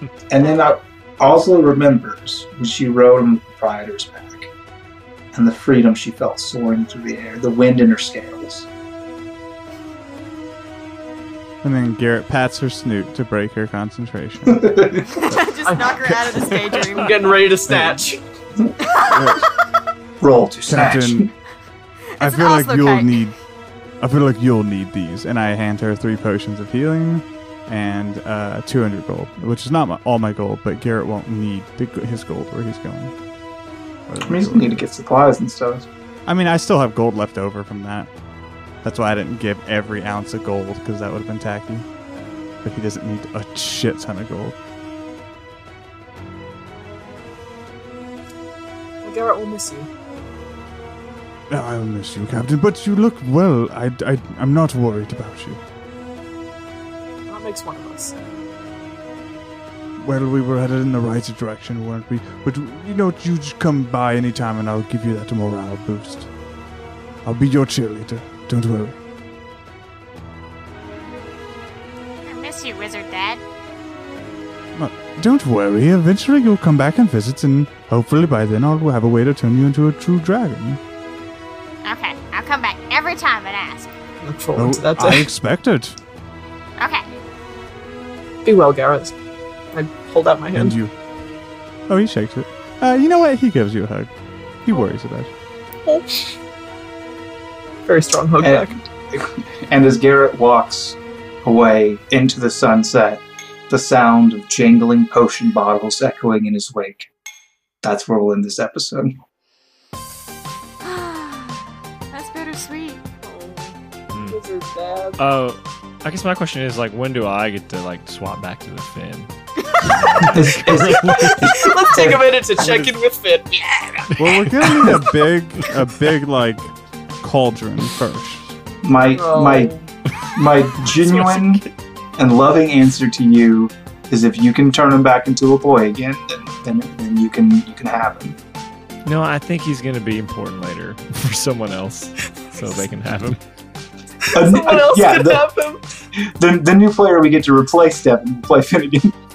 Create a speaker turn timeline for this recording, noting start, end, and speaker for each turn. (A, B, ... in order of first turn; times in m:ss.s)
0:00.3-0:04.5 A
0:05.3-0:08.7 A
0:11.6-0:15.4 B
0:14.5-0:15.1 A
0:15.1-0:17.4 C
0:15.6-0:18.2 D
0:17.7-0:18.0 B
0:18.8-0:19.3 C
0:19.1-0:19.4 B
0:20.2-0:21.3 A
0:20.7-0:21.3 B
0:22.2-0:23.2 C
0:22.2-0:23.4 B
0:24.0-0:33.2 B
0:34.1-0:34.8 B
0:34.2-0:35.9 A
0:36.2-0:38.1 B
0:38.8-0:41.8 B
0:42.6-0:44.6 B
0:49.0-0:49.9 D
0:51.5-0:55.6 B
0:57.3-0:58.1 D
1:00.0-1:06.3 B
1:07.2-1:09.0 B
1:12.2-1:13.4 E
1:14.7-1:20.8 B
1:21.8-1:23.9 E
1:24.2-1:25.3 D
1:24.5-1:26.0 B
1:26.8-1:27.0 E
1:28.4-1:29.1 D
1:29.7-1:30.8 D
1:30.5-1:30.9 B
1:31.9-1:35.3 B
1:35.8-1:36.4 D
1:37.8-1:38.8 D
1:38.4-1:47.1 A
1:47.8-1:49.2 A
1:50.8-1:53.0 C
1:53.2-1:55.2 D
1:54.1-1:54.4 F
1:55.2-1:59.3 F
1:59.7-2:00.0 C
1:59.8-2:01.5 F
2:00.3-2:02.3 A
2:01.0-2:04.9 D
2:04.2-2:08.6 B
2:08.8-2:09.7 A
2:09.1-2:09.9 D
2:10.3-2:11.6 A
2:10.8-2:11.6 F
2:12.2-2:18.4 A
2:19.0-2:23.4 F
2:24.3-2:25.5 A
2:24.3-2:25.8 D
2:26.2-2:29.1 A